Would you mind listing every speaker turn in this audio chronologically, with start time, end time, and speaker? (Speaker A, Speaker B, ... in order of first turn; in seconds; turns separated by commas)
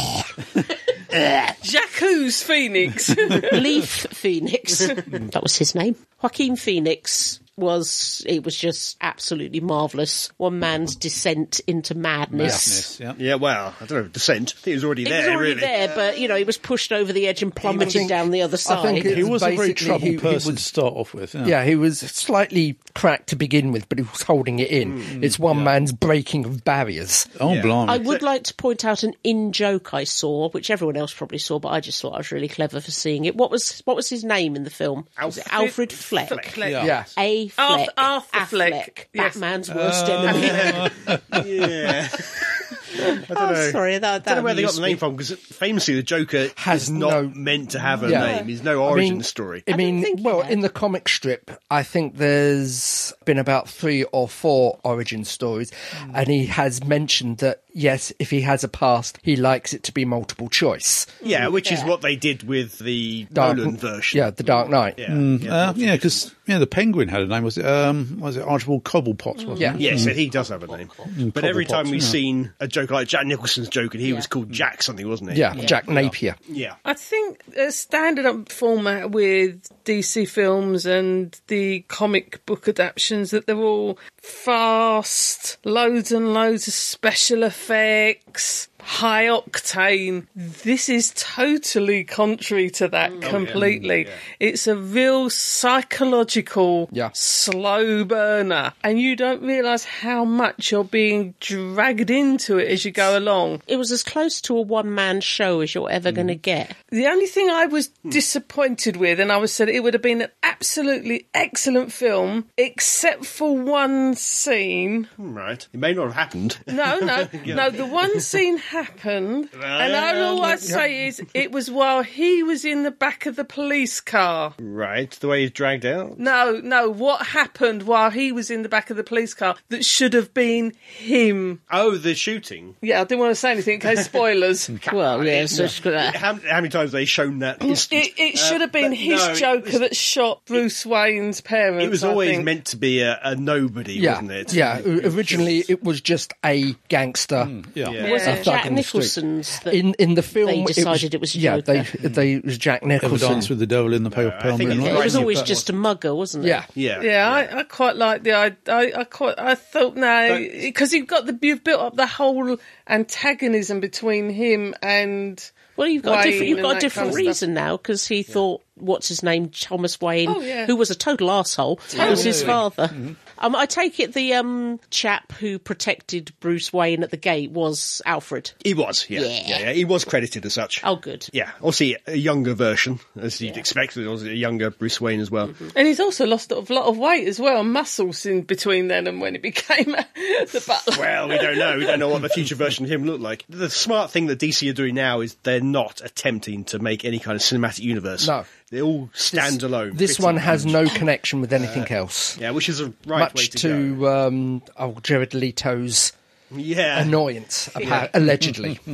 Speaker A: 1.6-3.6, Speaker B: 3.4-12.9, Speaker C: 12.3-13.2, Speaker D: 13.2-16.0, Speaker B: 15.0-19.2, Speaker D: 17.6-18.1, Speaker E: 17.8-20.6, Speaker C: 19.1-21.6, Speaker E: 21.4-27.3, Speaker D: 24.9-25.7, Speaker C: 25.1-25.4, Speaker C: 27.4-28.1, Speaker D: 27.4-28.2, Speaker B: 27.8-36.5, Speaker D: 35.2-35.6, Speaker A: 35.4-37.0, Speaker D: 36.1-36.5, Speaker C: 36.6-36.9, Speaker E: 36.8-37.1, Speaker B: 37.1-41.1, Speaker A: 37.6-39.4, Speaker C: 39.7-41.7, Speaker D: 40.2-42.6, Speaker B: 43.1-45.0, Speaker D: 43.2-49.7, Speaker E: 46.5-47.4, Speaker E: 48.0-61.1, Speaker B: 48.1-48.5, Speaker B: 49.7-50.6, Speaker D: 61.2-66.3, Speaker B: 61.4-61.9, Speaker E: 63.3-65.0, Speaker C: 65.1-70.2, Speaker E: 69.6-69.9, Speaker D: 69.8-76.8, Speaker C: 71.1-72.2, Speaker E: 75.3-76.4, Speaker B: 75.5-75.8, Speaker C: 75.9-76.1, Speaker A: 76.8-103.6, Speaker D: 93.2-94.2, Speaker B: 103.7-106.7, Speaker A: 106.9-115.1, Speaker D: 115.2-118.2, Speaker A: 116.7-124.5, Speaker D: 119.5-120.8, Speaker D: 124.6-126.3, Speaker A: 126.2-131.6, Speaker D: 131.7-132.7, Speaker A: 132.8-134.7, Speaker D: 134.8-139.8, Speaker B: 134.9-136.2, Speaker A: 137.8-142.5, Speaker D: 141.8-145.7, Speaker E: 143.9-153.5, Speaker C: 147.4-148.0, Speaker D: 147.8-148.3, Speaker A: 148.0-148.5, Speaker B: 148.0-151.9, Speaker C: 153.0-155.4, Speaker D: 154.1-155.7, Speaker B: 154.7-156.7, Speaker E: 156.4-156.7, Speaker D: 156.7-157.5, Speaker A: 157.0-165.5, Speaker D: 160.2-160.7, Speaker B: 165.8-178.6, Speaker A: 166.0-167.4, Speaker D: 166.2-167.3, Speaker A: 170.2-170.7, Speaker A: 171.9-172.4, Speaker D: 172.0-172.6, Speaker C: 172.0-173.1, Speaker D: 178.6-185.6, Speaker B: 179.1-179.7, Speaker B: 180.8-181.3, Speaker A: 185.7-192.1, Speaker D: 190.9-201.0, Speaker E: 198.2-198.5, Speaker E: 199.2-202.4, Speaker D: 201.6-204.0, Speaker E: 203.1-206.1, Speaker D: 206.5-207.2, Speaker E: 206.9-208.8, Speaker D: 207.8-208.1